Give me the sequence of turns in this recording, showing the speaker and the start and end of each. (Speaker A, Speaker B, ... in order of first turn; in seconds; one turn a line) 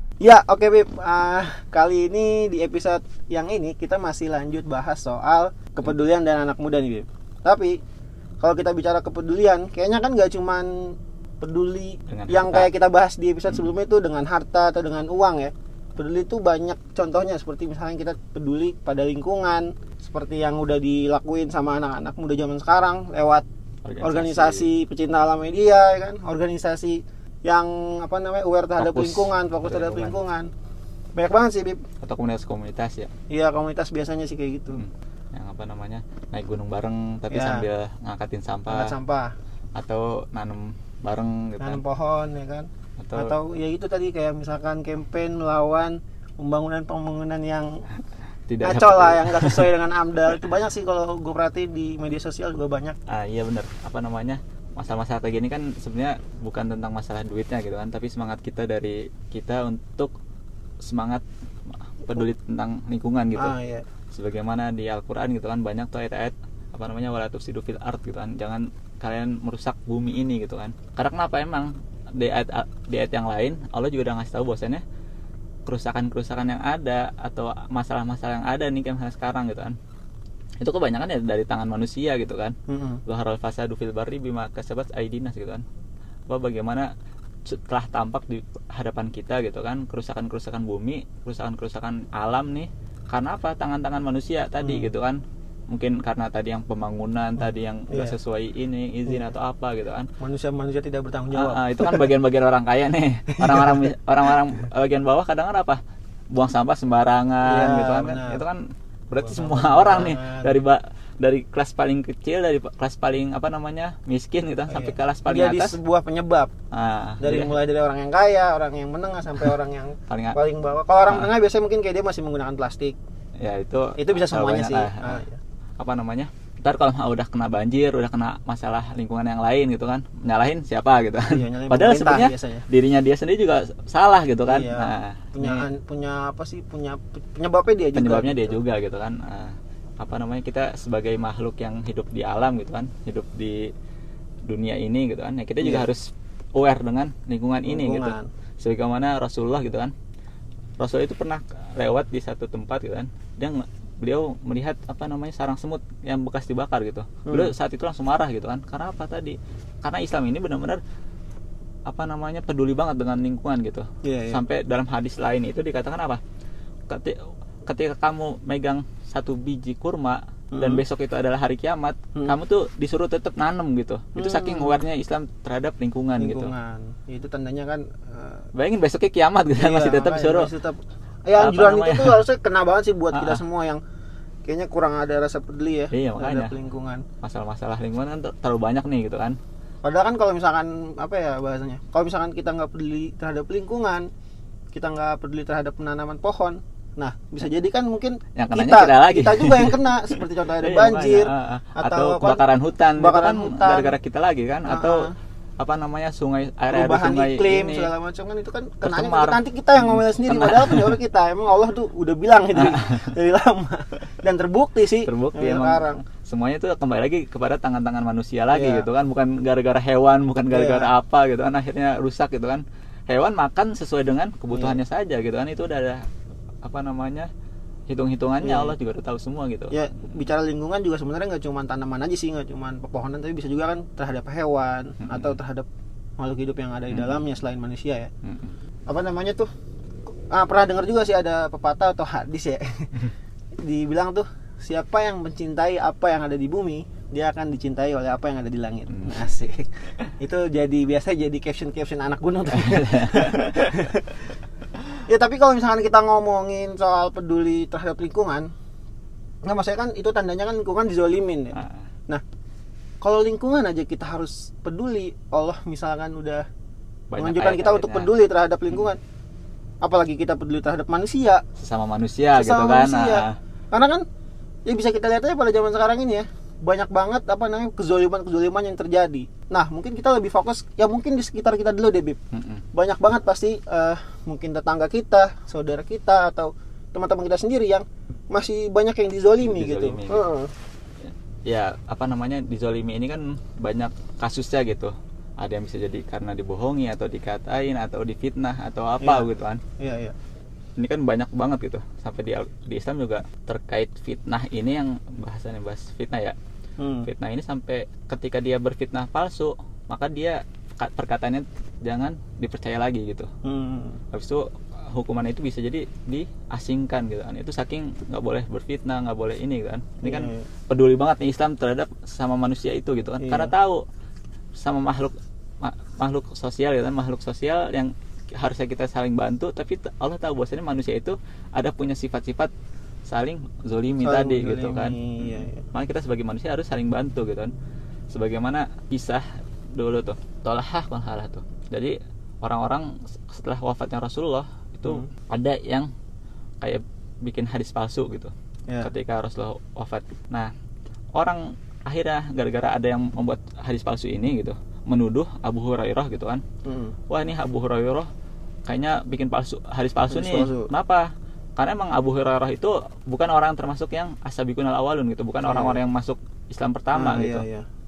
Speaker A: 0.2-7.8
Speaker A: 8.4-23.4
Speaker B: 12.1-12.7
Speaker B: 23.8-24.7
Speaker A: 24.0-30.5
Speaker B: 28.8-30.2
Speaker A: 31.1-31.8
Speaker B: 32.0-33.1
Speaker A: 33.3-34.8
Speaker B: 34.7-39.0
Speaker A: 37.3-37.6
Speaker A: 38.7-39.3
Speaker B: 39.7-41.8
Speaker A: 41.6-47.8
Speaker B: 43.0-43.3
Speaker B: 48.5-49.7
Speaker A: 48.6-53.0
Speaker B: 53.1-60.1
Speaker B: 60.8-63.5
Speaker A: 63.4-63.8
Speaker B: 64.1-74.8
Speaker B: 75.7-79.8
Speaker B: 80.6-85.6
Speaker A: 82.7-83.0
Speaker B: 86.3-86.9
Speaker B: 87.4-100.1
Speaker A: 94.6-94.9
Speaker A: 97.9-98.2
Speaker A: 100.2-102.1
Speaker B: 101.3-105.8
Speaker A: 103.3-103.9
Speaker B: 106.3-115.8
Speaker A: 107.4-108.4
Speaker A: 109.2-110.5
Speaker A: 114.7-116.5
Speaker B: 116.7-117.5
Speaker A: 117.2-123.0
Speaker B: 120.1-120.3
Speaker B: 123.4-125.2
Speaker A: 124.0-125.4
Speaker B: 125.8-135.7
Speaker A: 131.3-132.7
Speaker A: 134.5-138.6
Speaker B: 137.9-143.7
Speaker B: 144.4-149.9
Speaker A: 145.6-145.9
Speaker A: 147.7-148.3
Speaker B: 150.8-160.8
Speaker A: 157.2-157.5
Speaker B: 161.9-166.2
Speaker A: 164.0-164.4
Speaker B: 166.9-176.5
Speaker A: 170.5-170.8
Speaker A: 174.1-174.8
Speaker A: 176.2-178.5
Speaker B: 178.5-180.5
Speaker A: 179.6-183.8
Speaker B: 181.3-182.2
Speaker B: 183.1-183.4
Speaker A: 184.4-187.0
Speaker B: 185.9-186.5
Speaker B: 187.2-189.4
Speaker A: 189.8-194.1
Speaker A: 194.7-202.4
Speaker B: 198.3-205.1
Speaker A: 203.0-203.9
Speaker A: 204.7-205.1
Speaker B: 205.6-207.9
Speaker A: 206.7-216.0
Speaker B: 208.8-211.0
Speaker B: 212.5-213.1
Speaker B: 215.0-226.0
Speaker A: 218.5-218.9
Speaker A: 220.5-220.9
Speaker B: 226.6-227.3
Speaker B: 227.9-229.7
Speaker A: 228.4-228.7
Speaker A: 229.7-235.7
Speaker B: 235.0-235.3
Speaker A: 236.2-238.1
Speaker B: 236.9-237.2
Speaker B: 238.2-238.5
Speaker A: 238.9-239.5
Speaker A: 240.3-243.1
Speaker A: 243.6-254.3
Speaker B: 252.5-253.9
Speaker A: 255.1-258.5
Speaker A: 259.4-262.2
Speaker A: 263.0-266.4
Speaker B: 267.1-268.1
Speaker A: 267.2-269.0
Speaker A: 269.8-271.4
Speaker B: 271.6-273.4
Speaker A: 272.3-274.0
Speaker A: 274.7-282.2
Speaker B: 282.3-282.6
Speaker A: 282.7-290.5
Speaker B: 289.4-290.2
Speaker B: 291.1-299.6
Speaker A: 299.0-299.3
Speaker A: 299.8-300.1
Speaker B: 300.8-306.4
Speaker A: 306.8-307.1
Speaker B: 307.0-313.3
Speaker A: 313.4-314.0
Speaker B: 314.1-323.8
Speaker A: 320.0-320.5
Speaker A: 323.2-323.5
Speaker B: 324.5-332.5
Speaker B: 333.1-337.5
Speaker A: 334.0-335.6
Speaker B: 338.1-345.9
Speaker B: 346.6-350.5
Speaker B: 351.1-356.4
Speaker A: 356.6-356.9
Speaker B: 357.1-358.1
Speaker B: 358.6-367.4
Speaker A: 360.1-360.7
Speaker A: 365.4-365.8
Speaker A: 366.9-367.6